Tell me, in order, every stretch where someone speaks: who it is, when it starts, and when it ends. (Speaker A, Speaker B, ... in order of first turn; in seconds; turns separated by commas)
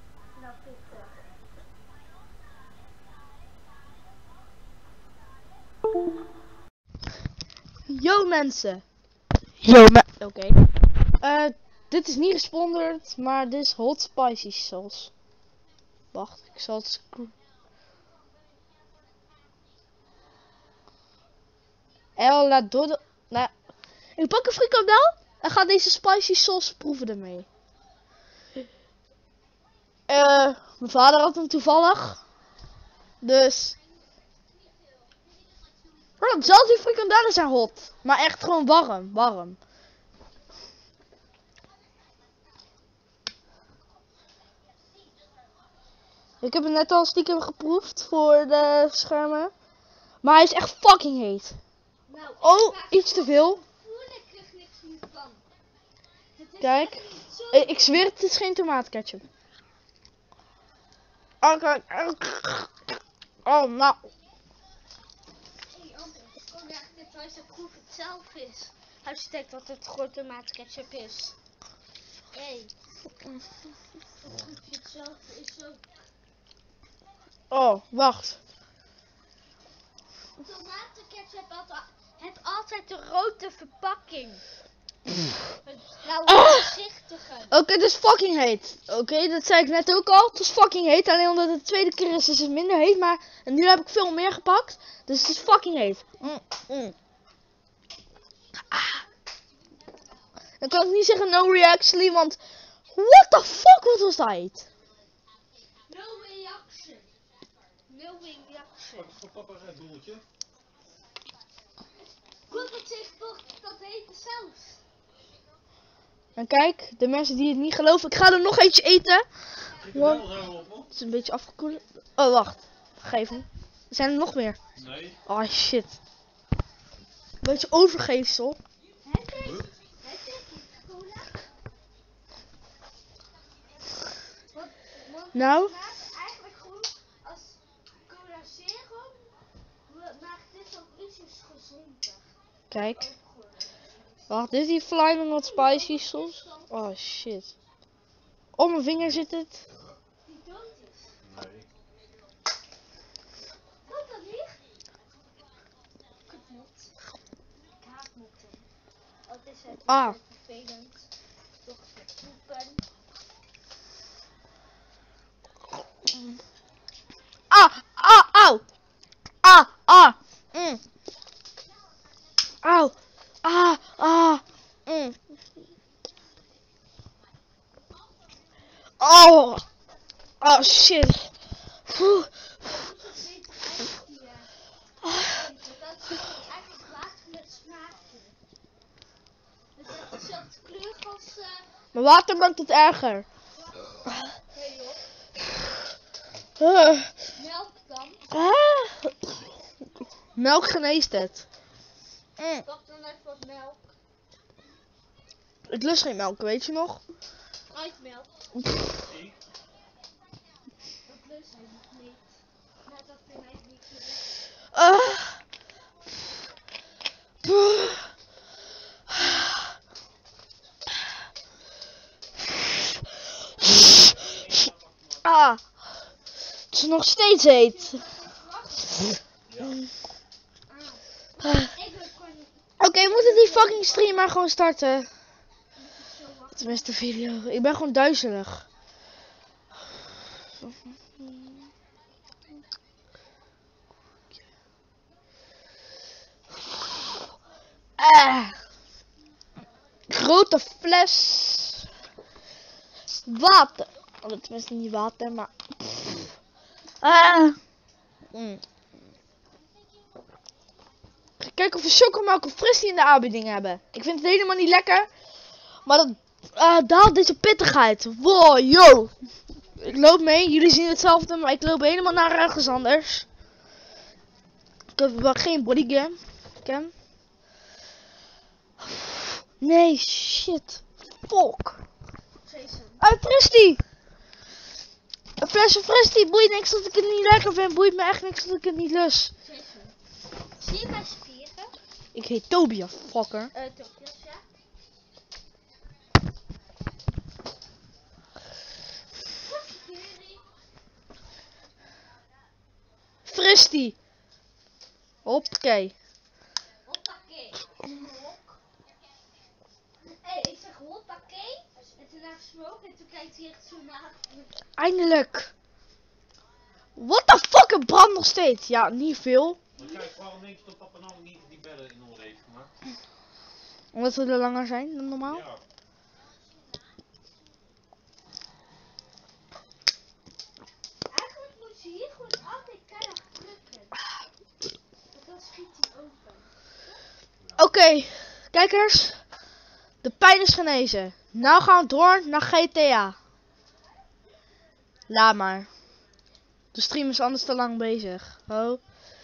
Speaker A: 0.3-1.3, Speaker B: 7.9-8.8, Speaker B: 9.6-10.6, Speaker B: 11.2-15.1, Speaker B: 16.1-17.3, Speaker B: 22.2-23.5, Speaker B: 24.2-27.5, Speaker B: 30.1-32.2, Speaker B: 33.2-33.8, Speaker B: 36.2-39.6, Speaker B: 46.4-49.5, Speaker B: 50.2-51.6, Speaker A: 52.1-55.5, Speaker B: 52.4-53.6, Speaker A: 56.4-58.0, Speaker B: 56.6-59.2, Speaker B: 61.4-62.8, Speaker B: 63.5-64.0, Speaker A: 65.7-71.3, Speaker A: 72.3-72.7, Speaker A: 74.2-75.8, Speaker B: 77.5-78.4, Speaker A: 80.4-84.4, Speaker A: 85.6-87.6, Speaker B: 86.3-86.7, Speaker B: 87.5-97.0, Speaker B: 98.7-99.0, Speaker B: 100.6-102.4, Speaker B: 102.9-104.7, Speaker A: 105.9-107.1, Speaker A: 107.9-109.1, Speaker C: 108.9-110.2, Speaker A: 112.5-114.8, Speaker B: 116.4-119.3, Speaker C: 119.8-120.9, Speaker B: 119.8-120.4, Speaker B: 120.9-124.6, Speaker C: 124.8-125.2, Speaker B: 125.3-126.0, Speaker B: 127.4-128.6, Speaker A: 129.0-131.4, Speaker A: 134.5-139.3, Speaker B: 135.3-135.8, Speaker A: 139.8-144.5, Speaker B: 142.7-143.1, Speaker B: 144.3-147.5, Speaker A: 145.3-146.7, Speaker B: 148.6-149.6, Speaker A: 150.2-151.2, Speaker C: 151.2-151.7, Speaker A: 153.8-154.6, Speaker A: 156.3-156.9, Speaker A: 157.8-158.7, Speaker A: 159.3-161.1, Speaker B: 159.9-160.2, Speaker A: 161.6-162.8, Speaker B: 167.5-168.6, Speaker B: 169.4-170.8, Speaker B: 172.6-175.2, Speaker B: 179.0-179.7, Speaker B: 180.4-181.3, Speaker B: 181.9-182.3, Speaker A: 182.6-184.5, Speaker A: 185.1-188.4, Speaker A: 189.8-191.7, Speaker B: 191.9-193.3, Speaker A: 193.5-193.8, Speaker A: 194.5-195.1, Speaker B: 196.6-197.1, Speaker A: 197.3-198.3, Speaker B: 198.3-199.2, Speaker B: 200.4-201.4, Speaker B: 202.4-202.7, Speaker A: 202.6-203.8, Speaker B: 205.7-207.0, Speaker A: 207.7-208.3, Speaker C: 209.0-209.4, Speaker A: 211.1-214.6, Speaker B: 214.7-215.4, Speaker B: 217.4-218.1, Speaker B: 219.1-219.4, Speaker C: 223.7-225.3, Speaker B: 225.2-225.6, Speaker B: 226.7-228.0, Speaker A: 227.4-229.2, Speaker C: 229.5-229.8, Speaker A: 230.7-234.3, Speaker B: 232.8-235.1, Speaker A: 235.8-237.0, Speaker B: 236.6-238.7, Speaker B: 248.0-248.6, Speaker B: 250.1-251.9, Speaker B: 253.2-256.3, Speaker B: 257.0-257.6, Speaker B: 258.3-258.6, Speaker B: 261.4-265.1, Speaker B: 265.9-269.1, Speaker B: 269.8-273.2, Speaker B: 274.9-276.9, Speaker B: 279.0-281.8, Speaker A: 282.4-283.1, Speaker B: 283.0-283.8, Speaker B: 285.4-289.3, Speaker A: 289.4-289.9, Speaker A: 290.6-291.7, Speaker B: 292.1-293.5, Speaker A: 293.5-294.4, Speaker A: 299.3-300.4, Speaker B: 303.2-303.9, Speaker B: 305.2-305.9, Speaker A: 306.8-308.6, Speaker A: 310.0-314.5, Speaker B: 314.8-315.5, Speaker B: 317.0-319.6, Speaker C: 319.8-322.7, Speaker B: 323.9-325.4, Speaker C: 325.2-325.6, Speaker A: 331.1-334.0, Speaker A: 335.1-336.5, Speaker B: 337.6-339.2, Speaker B: 340.0-343.2, Speaker B: 345.1-345.7, Speaker B: 346.7-348.8